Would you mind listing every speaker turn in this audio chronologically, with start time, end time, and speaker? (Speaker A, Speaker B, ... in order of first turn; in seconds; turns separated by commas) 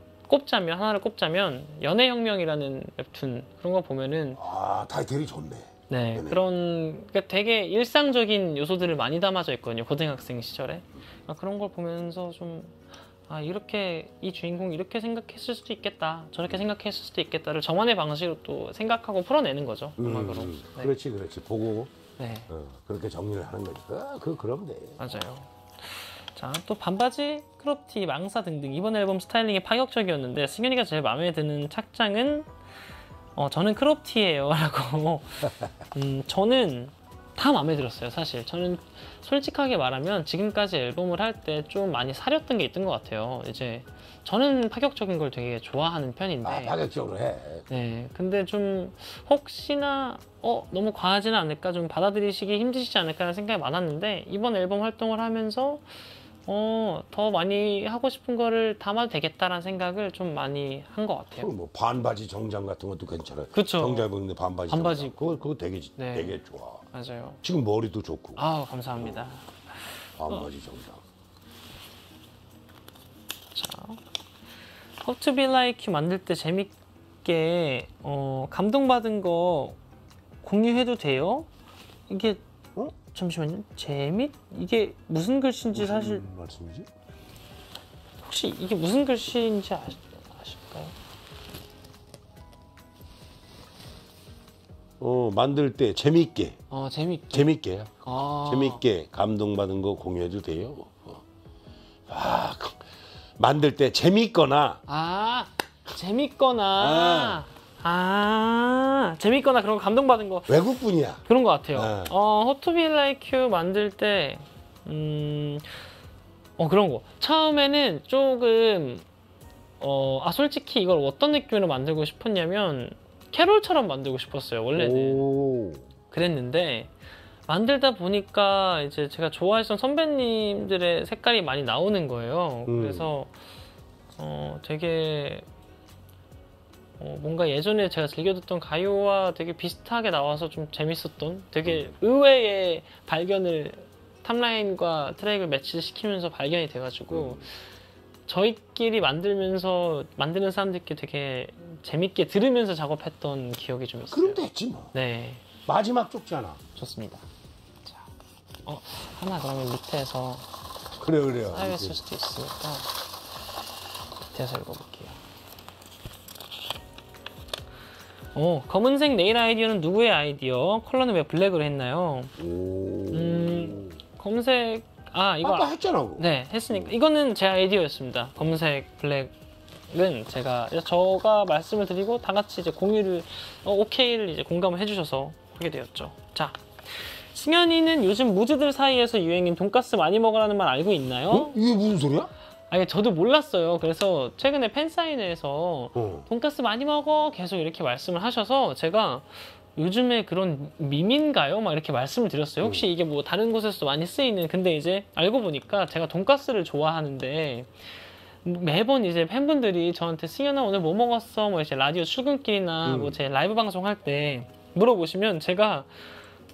Speaker A: 0.3-4.4, Speaker B: 4.3-6.4, Speaker A: 5.9-20.9, Speaker B: 20.0-21.9, Speaker A: 22.2-22.5, Speaker B: 22.5-25.0, Speaker A: 25.0-32.5, Speaker A: 33.4-46.8, Speaker B: 46.4-47.7, Speaker A: 47.7-55.9, Speaker A: 56.5-61.5, Speaker B: 61.4-66.8, Speaker A: 63.5-64.1, Speaker A: 64.7-65.4, Speaker A: 66.0-66.3, Speaker A: 66.9-67.4, Speaker B: 67.4-68.4, Speaker A: 68.4-69.5, Speaker B: 69.0-69.3, Speaker B: 70.2-71.0, Speaker A: 73.5-74.0, Speaker A: 75.0-79.8, Speaker A: 80.4-81.5, Speaker A: 82.1-82.4, Speaker A: 82.9-86.2, Speaker B: 85.7-86.9, Speaker A: 88.2-90.9, Speaker B: 95.0-96.6, Speaker A: 96.7-97.5, Speaker B: 97.3-101.2, Speaker A: 98.0-98.8, Speaker B: 102.1-102.8, Speaker B: 103.4-104.8, Speaker A: 104.9-110.6, Speaker B: 106.8-107.4, Speaker B: 110.5-111.2, Speaker A: 111.3-115.7, Speaker B: 111.7-112.1, Speaker A: 116.6-119.0, Speaker A: 119.8-125.2, Speaker B: 124.7-125.8, Speaker A: 126.1-126.9, Speaker A: 127.5-133.3, Speaker B: 132.7-133.1, Speaker A: 134.2-135.4, Speaker A: 137.0-147.5, Speaker B: 141.7-141.9, Speaker B: 147.1-147.5, Speaker A: 148.3-154.4, Speaker B: 154.1-154.9, Speaker A: 154.9-155.4, Speaker B: 155.7-156.6, Speaker A: 156.8-157.2, Speaker A: 158.7-160.4, Speaker B: 161.0-162.0, Speaker A: 161.5-162.9, Speaker A: 164.3-165.2, Speaker A: 168.3-172.3, Speaker B: 172.4-174.0, Speaker A: 173.1-179.3, Speaker B: 175.4-176.9, Speaker A: 179.9-191.6, Speaker B: 191.3-192.3, Speaker A: 192.7-207.8, Speaker B: 195.9-196.3, Speaker B: 202.6-202.9, Speaker A: 208.4-215.9, Speaker B: 212.8-213.2